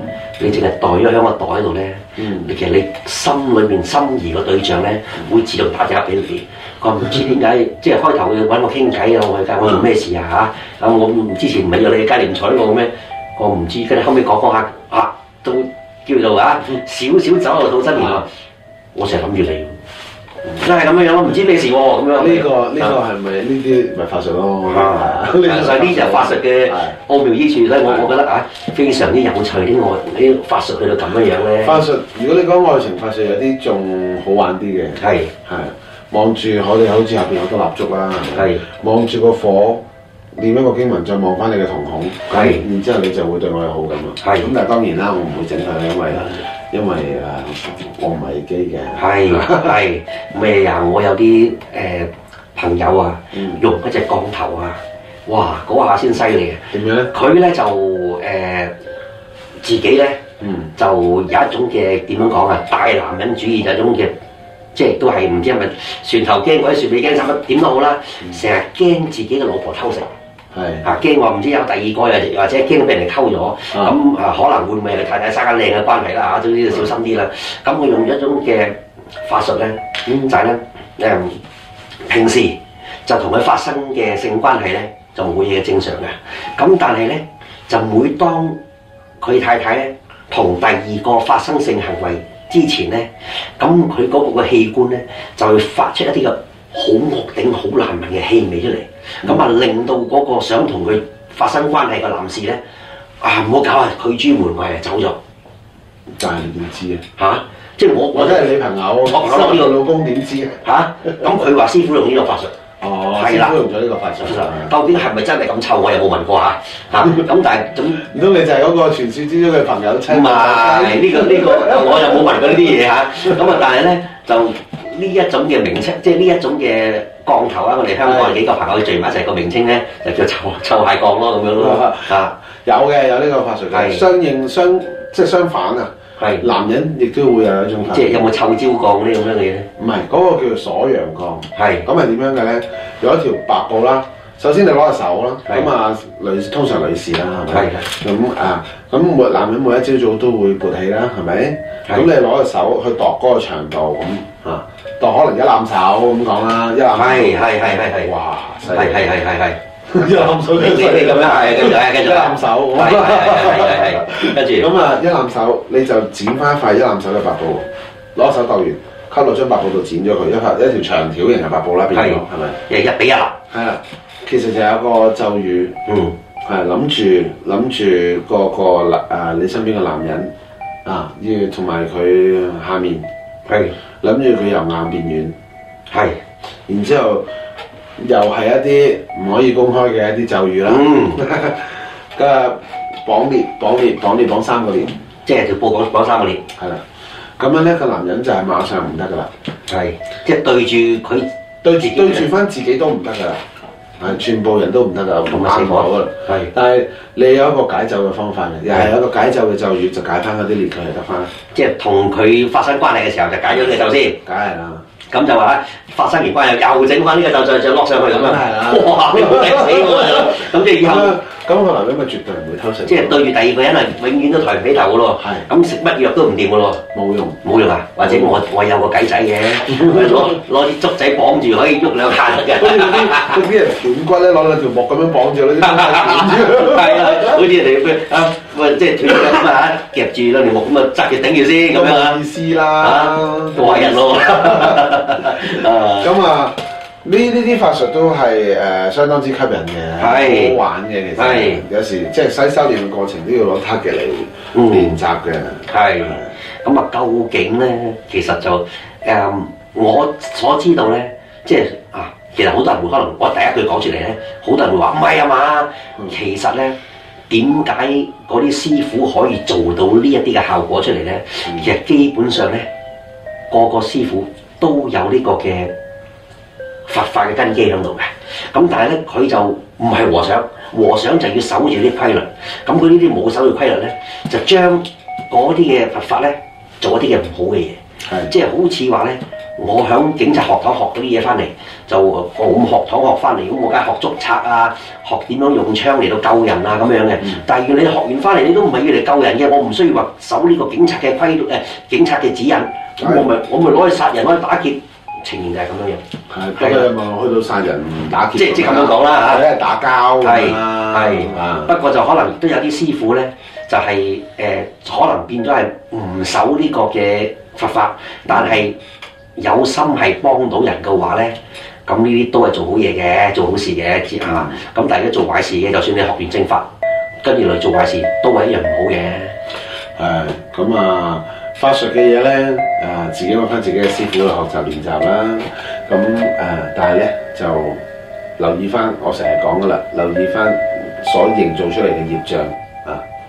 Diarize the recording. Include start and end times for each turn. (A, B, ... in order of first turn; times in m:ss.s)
0:00.4-0:18.3 A
0:02.2-0:02.5 B
0:09.6-0:09.9 B
0:17.9-0:18.2 B
0:18.9-0:19.8 A
0:20.5-0:23.0 A
0:22.2-0:27.0 B
0:24.6-0:31.8 A
0:31.6-0:49.8 B
0:35.0-0:35.3 A
0:38.3-0:38.6 A
0:42.3-0:42.6 A
0:44.2-0:44.5 A
0:48.9-0:58.7 A
0:53.3-0:53.6 B
0:56.7-0:57.1 B
0:59.6-1:00.2 A
1:00.4-1:00.7 B
1:00.8-1:04.1 A
1:04.7-1:10.1 A
1:10.5-1:10.8 B
1:10.8-1:21.4 A
1:20.0-1:20.4 B
1:22.0-1:28.6 A
1:29.2-1:42.6 A
1:43.2-1:45.2 A
1:46.1-1:47.0 B
1:47.2-1:48.5 A
1:48.1-1:50.6 B
1:49.0-1:49.8 A
1:50.6-1:52.5 A
1:52.8-1:54.7 B
1:53.1-1:53.5 A
1:54.2-1:58.0 A
1:57.0-1:57.4 B
1:57.9-2:03.6 B
2:00.1-2:12.3 A
2:08.0-2:08.4 B
2:11.5-2:18.3 B
2:13.7-2:14.0 A
2:16.2-2:16.4 A
2:17.9-2:19.7 A
2:19.8-2:39.1 B
2:21.5-2:21.8 A
2:27.5-2:27.8 A
2:36.9-2:38.1 A
2:38.7-2:44.7 A
2:39.9-2:52.6 B
2:51.9-2:53.4 A
2:53.5-2:55.8 B
2:55.8-2:56.1 A
2:56.4-3:00.3 B
3:00.8-3:03.1 B
3:03.4-3:03.7 A
3:04.0-3:05.3 B
3:05.9-3:06.2 A
3:06.7-3:07.2 B
3:08.0-3:15.0 B
3:10.7-3:11.2 A
3:15.2-3:16.4 A
3:16.5-3:16.8 B
3:17.4-3:19.3 B
3:19.7-3:22.3 A
3:21.6-3:23.4 B
3:24.0-3:31.3 B
3:25.3-3:26.5 A
3:31.5-3:34.2 A
3:34.2-3:34.8 B
3:35.1-3:41.2 A
3:38.1-3:43.2 B
3:42.8-3:46.8 A
3:45.2-3:45.5 B
3:46.9-3:47.4 B
3:47.4-3:53.4 A
3:48.0-3:48.4 B
3:49.7-3:50.4 B
3:52.5-3:57.4 B
3:55.6-4:02.2 A
4:01.7-4:16.3 B
4:02.8-4:06.1 A
4:10.0-4:10.6 A
4:11.2-4:11.6 A
4:14.5-4:15.0 A
4:15.7-4:26.8 A
4:27.3-4:32.7 A
4:31.4-4:31.7 B
4:33.5-4:35.7 A
4:36.9-5:06.0 A
4:48.0-4:48.3 B
5:03.0-5:03.3 B
5:06.3-5:11.7 B
5:06.6-5:06.9 A
5:08.3-5:09.4 A
5:10.2-5:18.8 A
5:18.3-5:18.6 B
5:19.4-5:26.7 A
5:24.2-5:24.6 B
5:27.2-5:29.3 A
5:30.0-5:37.8 B
5:38.4-5:43.0 B